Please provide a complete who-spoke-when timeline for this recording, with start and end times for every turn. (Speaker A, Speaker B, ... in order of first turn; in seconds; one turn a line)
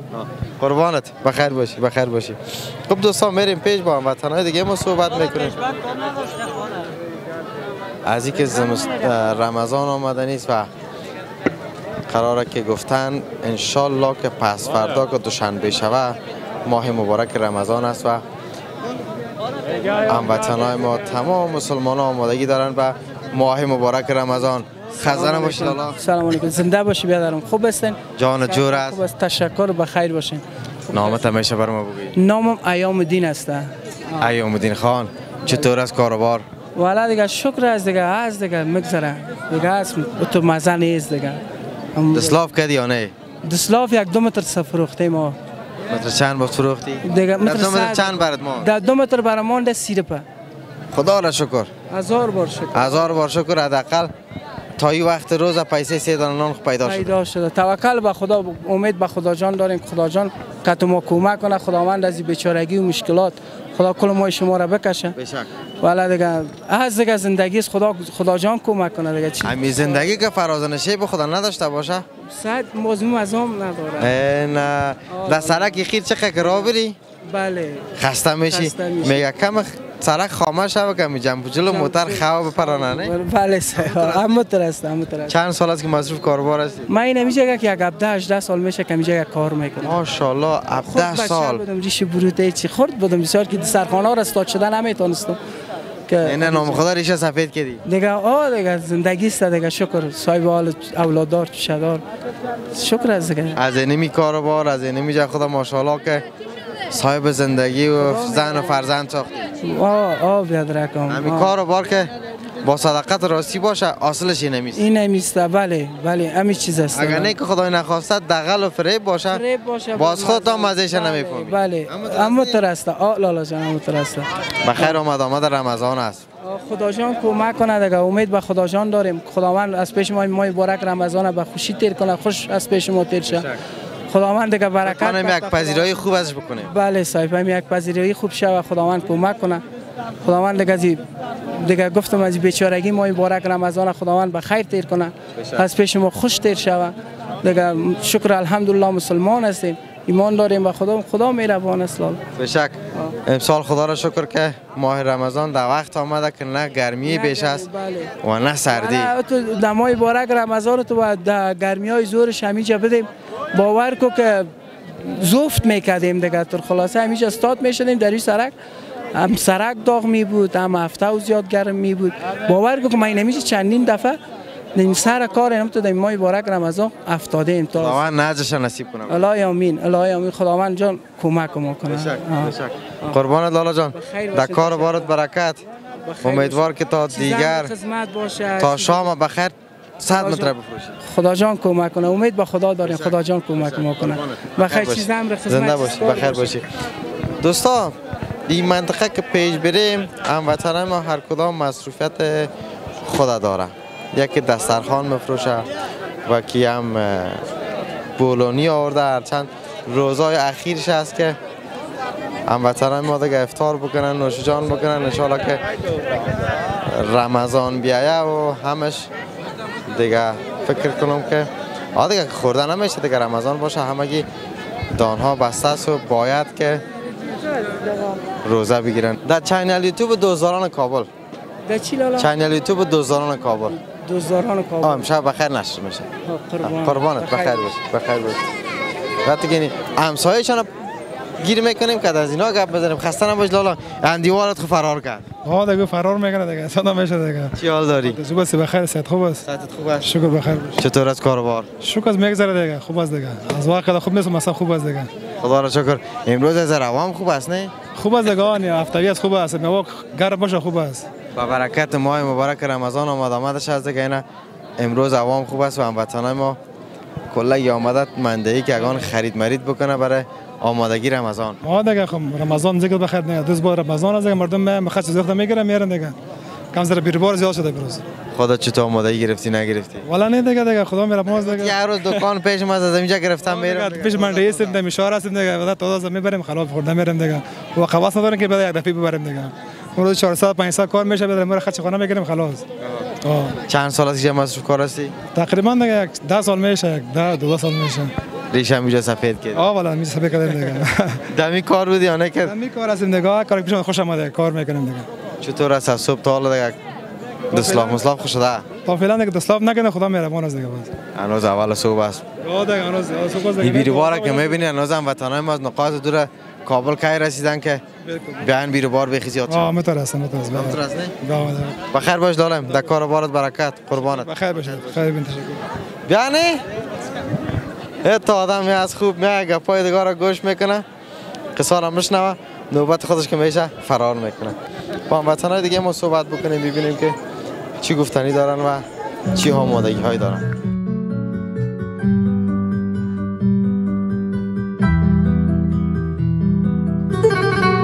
Speaker A: 0.1-5.6
Speaker A: 8.1-10.7
Speaker A: 12.1-18.2
Speaker A: 20.1-26.0
Speaker B: 25.1-31.1
Speaker A: 28.2-29.0
Speaker A: 30.9-32.1
Speaker B: 32.2-34.3
Speaker A: 34.2-36.5
Speaker B: 36.8-41.4
Speaker B: 42.0-42.4
Speaker A: 42.1-43.1
Speaker B: 43.4-45.4
Speaker A: 45.9-48.7
Speaker B: 47.0-50.2
Speaker A: 50.9-51.7
Speaker B: 51.9-53.1
Speaker A: 52.7-54.1
Speaker A: 54.8-57.1
Speaker B: 56.8-65.2
Speaker A: 65.2-65.5
Speaker B: 65.8-70.1
Speaker A: 69.4-72.0
Speaker B: 72.3-74.2
Speaker A: 74.0-77.0
Speaker B: 75.1-75.8
Speaker B: 77.3-77.9
Speaker A: 78.0-83.1
Speaker B: 78.5-79.2
Speaker B: 81.7-85.3
Speaker A: 83.8-84.2
Speaker A: 85.3-86.9
Speaker B: 86.9-90.0
Speaker A: 89.8-91.6
Speaker B: 90.8-95.4
Speaker B: 96.1-96.8
Speaker A: 96.2-97.8
Speaker B: 97.9-102.0
Speaker B: 102.7-103.6
Speaker A: 103.6-106.2
Speaker A: 106.9-109.3
Speaker B: 108.0-108.8
Speaker B: 109.6-111.5
Speaker A: 111.1-112.1
Speaker A: 112.6-114.8
Speaker B: 114.8-117.3
Speaker A: 116.9-119.4
Speaker B: 119.3-125.0
Speaker A: 120.0-122.6
Speaker A: 124.6-126.2
Speaker B: 126.4-133.4
Speaker B: 134.1-135.9
Speaker A: 134.8-136.7
Speaker B: 136.7-139.6
Speaker B: 140.2-141.0
Speaker B: 141.6-152.2
Speaker A: 145.3-145.7
Speaker A: 152.4-157.7
Speaker B: 157.0-158.1
Speaker A: 158.2-159.1
Speaker B: 158.7-164.5
Speaker B: 165.0-168.5
Speaker B: 169.1-174.2
Speaker B: 174.8-178.0
Speaker A: 177.8-179.2
Speaker B: 179.1-183.2
Speaker A: 181.9-185.6
Speaker B: 183.9-185.1
Speaker B: 186.0-189.1
Speaker A: 186.2-187.7
Speaker A: 188.6-191.0
Speaker B: 190.1-190.5
Speaker B: 191.0-196.6
Speaker A: 192.8-196.6
Speaker A: 197.4-198.0
Speaker A: 198.5-202.5
Speaker A: 203.0-205.7
Speaker A: 206.2-207.4
Speaker A: 208.2-211.4
Speaker A: 212.5-215.6
Speaker A: 216.9-219.1
Speaker A: 219.9-224.3
Speaker A: 224.9-226.8
Speaker A: 228.4-231.1
Speaker B: 231.7-232.3
Speaker A: 232.2-233.8
Speaker B: 233.9-235.1
Speaker A: 234.8-236.1
Speaker B: 236.3-237.6
Speaker A: 236.6-238.5
Speaker A: 239.2-240.7
Speaker A: 241.4-245.3
Speaker C: 245.4-249.4
Speaker A: 247.6-248.2
Speaker A: 249.4-250.1
Speaker C: 250.0-250.8
Speaker A: 250.8-251.7
Speaker C: 251.8-255.1
Speaker A: 255.4-257.7
Speaker C: 257.9-261.1
Speaker A: 261.4-264.2
Speaker A: 264.8-266.6
Speaker A: 267.3-271.6
Speaker C: 271.6-276.1
Speaker C: 276.7-278.0
Speaker A: 278.4-280.1
Speaker C: 280.1-282.2
Speaker A: 281.4-284.8
Speaker C: 283.4-292.6
Speaker C: 293.2-293.6
Speaker A: 293.7-295.1
Speaker C: 295.3-298.1
Speaker A: 298.5-299.6
Speaker C: 299.5-301.2
Speaker A: 301.3-302.6
Speaker C: 302.4-305.1
Speaker A: 305.4-306.8
Speaker C: 307.5-308.0
Speaker A: 307.5-308.7
Speaker C: 308.8-310.9
Speaker A: 311.2-312.2
Speaker C: 312.4-314.6
Speaker A: 313.6-317.8
Speaker C: 318.1-318.4
Speaker A: 318.4-319.7
Speaker C: 319.5-321.8
Speaker A: 320.5-321.1
Speaker A: 321.9-324.3
Speaker C: 324.0-325.6
Speaker A: 326.1-326.6
Speaker A: 328.0-330.9
Speaker A: 331.6-334.6
Speaker A: 335.1-337.2
Speaker A: 337.8-340.4